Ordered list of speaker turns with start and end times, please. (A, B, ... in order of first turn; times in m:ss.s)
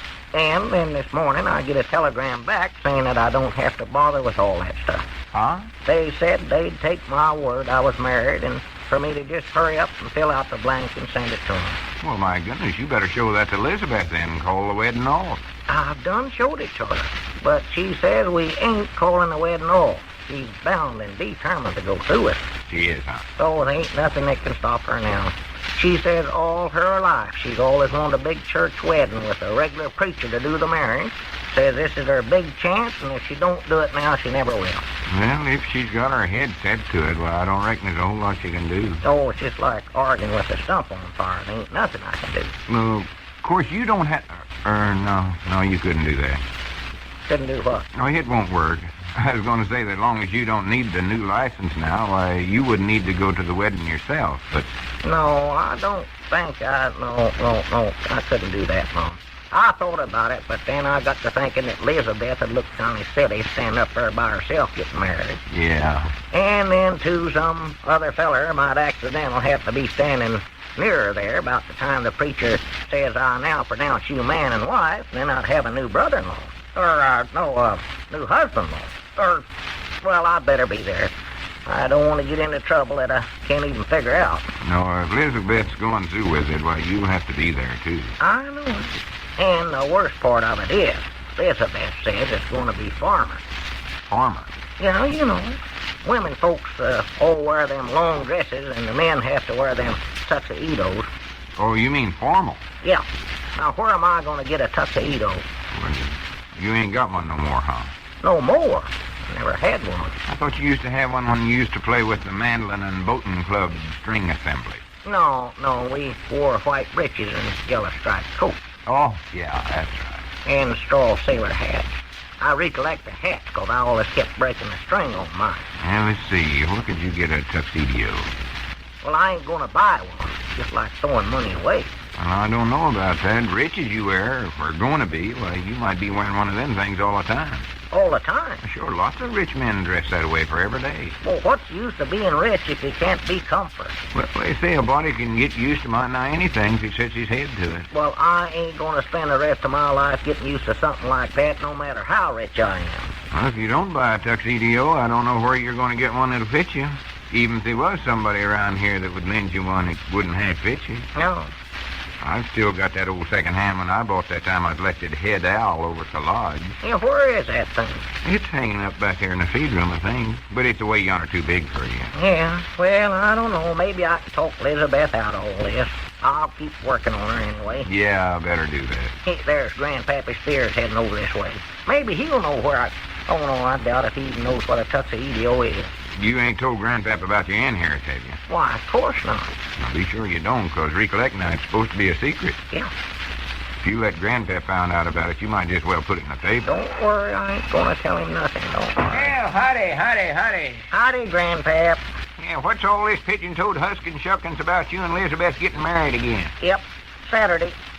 0:00.3-0:05.1 A
0:05.3-0:05.7 B
0:05.8-0:11.8 A
0:12.0-0:15.4 B
0:15.7-0:22.5 A
0:22.7-0:23.3 B
0:23.4-0:34.9 A
0:35.1-0:39.0 B
0:39.0-0:42.6 A
0:42.7-0:46.4 B
0:47.3-0:47.9 A
0:47.9-0:54.7 B
0:55.0-1:05.4 A
1:05.5-1:06.2 B
1:06.3-1:19.5 A
1:20.0-1:21.1 A
1:21.7-1:24.5 A
1:24.6-1:28.2 B
1:28.2-1:33.4 A
1:34.1-1:34.5 B
1:34.8-1:41.1 A
1:41.6-1:42.6 B
1:43.6-1:45.5 A
1:45.7-1:47.9 B
1:48.2-1:50.2 A
1:50.3-1:54.8 B
1:55.0-1:58.6 A
1:58.9-2:00.2 B
2:00.4-2:05.7 A
2:05.8-2:08.3 B
2:09.0-2:11.9 A
2:12.2-2:17.7 B
2:17.9-2:18.6 A
2:18.6-2:21.2 B
2:21.2-2:24.0 A
2:24.1-2:27.9 B
2:27.9-2:33.1 A
2:33.3-2:41.1 B
2:41.2-2:41.5 A
2:42.2-2:46.8 B
2:46.8-2:48.1 A
2:48.2-2:52.1 B
2:52.2-2:57.9 A
2:57.8-2:59.2 B
2:59.2-3:05.9 A
3:06.1-3:08.4 B
3:08.5-3:09.5 A
3:09.8-3:12.6 B
3:13.8-3:16.7 B
3:16.6-3:19.4 A
3:19.0-3:20.9 B
3:20.9-3:22.0 A
3:22.4-3:26.6 B
3:26.6-3:27.8 A